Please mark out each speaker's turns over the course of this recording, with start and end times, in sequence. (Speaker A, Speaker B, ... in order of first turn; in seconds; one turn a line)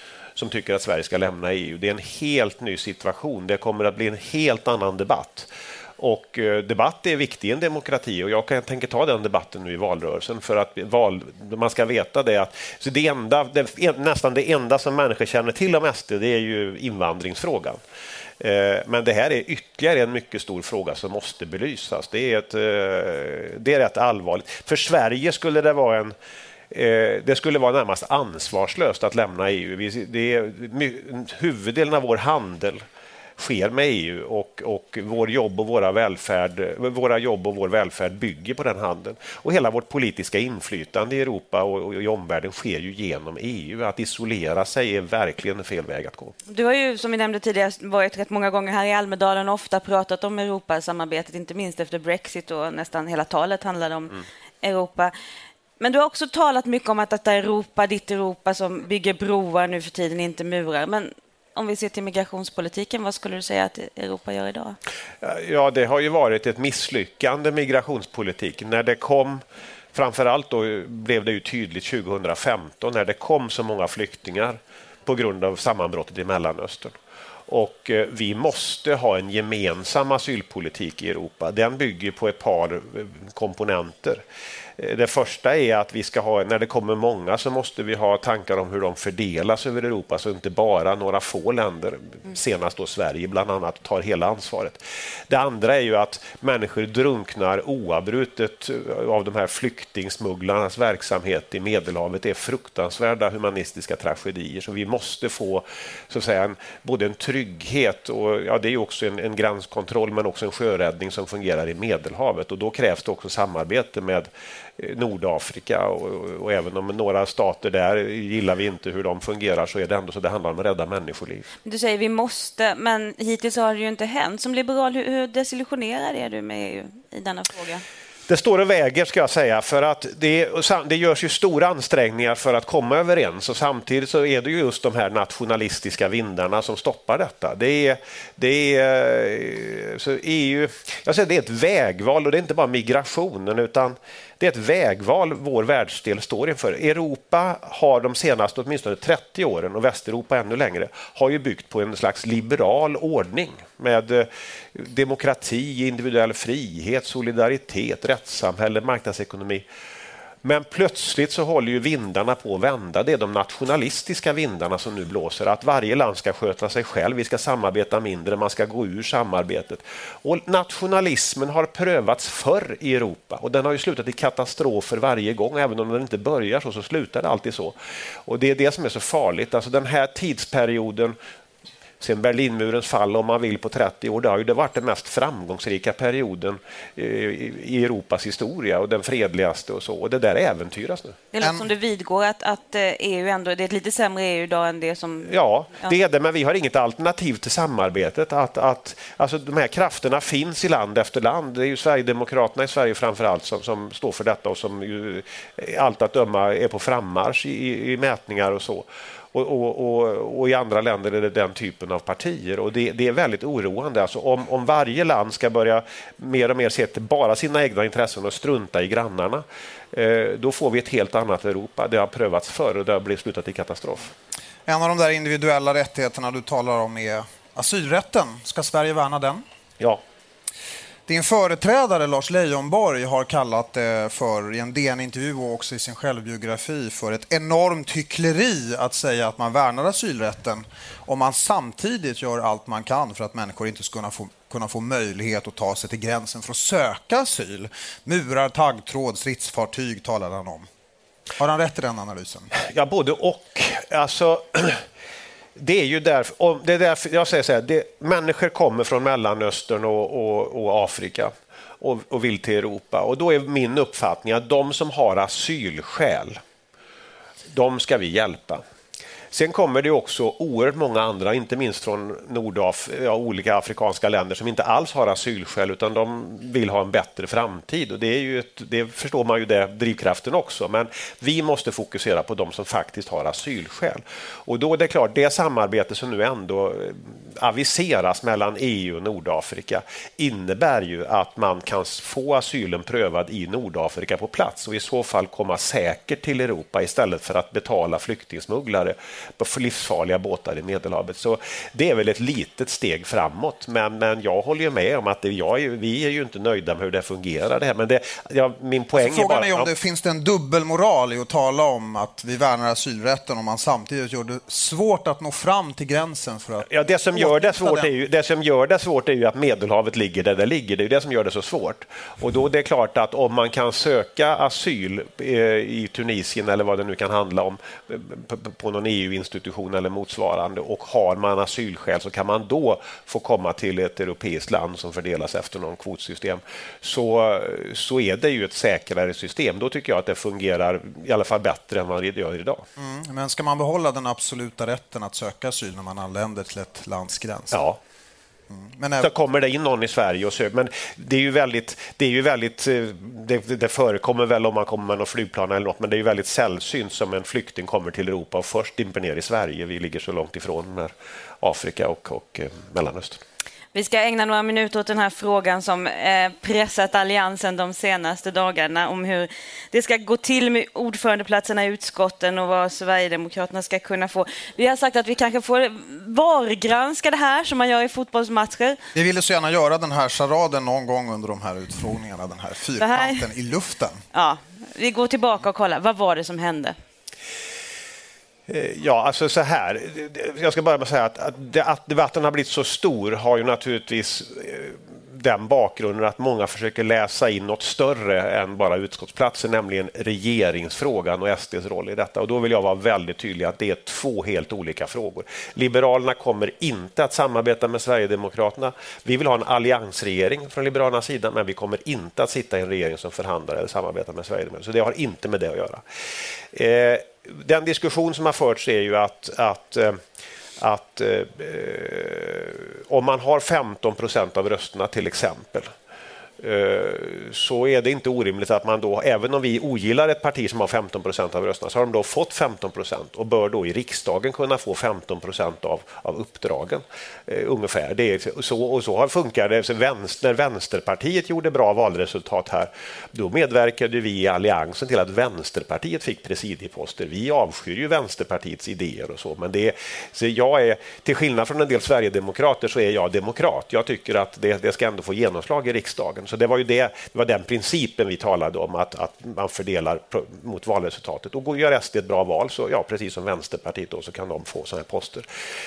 Speaker A: 0.3-17.8
Speaker A: 18.4-26.1
Speaker A: 26.7-32.8
Speaker A: 33.4-46.3
Speaker B: 46.5-55.1
Speaker B: 55.8-64.8
Speaker A: 65.2-69.4
Speaker A: 69.9-76.9
Speaker A: 77.5-84.2
Speaker A: 84.8-121.5
Speaker B: 121.6-127.8
Speaker A: 128.3-159.6
Speaker A: 160.4-177.7
Speaker A: 178.2-181.2
Speaker A: 182.0-191.2
Speaker B: 191.3-195.9
Speaker C: 191.4-191.7
Speaker A: 195.2-224.1
Speaker C: 224.7-229.4
Speaker C: 231.1-250.7
Speaker C: 251.4-252.5
Speaker A: 252.5-254.8
Speaker A: 255.6-266.4
Speaker A: 267.5-268.6
Speaker A: 269.3-309.7
Speaker C: 308.9-317.9
Speaker A: 316.6-342.6
Speaker C: 342.8-347.6
Speaker A: 347.5-347.8
Speaker C: 348.5-349.1
Speaker A: 349.0-363.2
Speaker B: 363.7-378.8
Speaker C: 378.9-384.0
Speaker B: 382.8-383.2
Speaker B: 384.1-386.7
Speaker A: 388.5-415.8
Speaker A: 416.5-420.0
Speaker A: 420.6-425.7
Speaker A: 426.4-465.3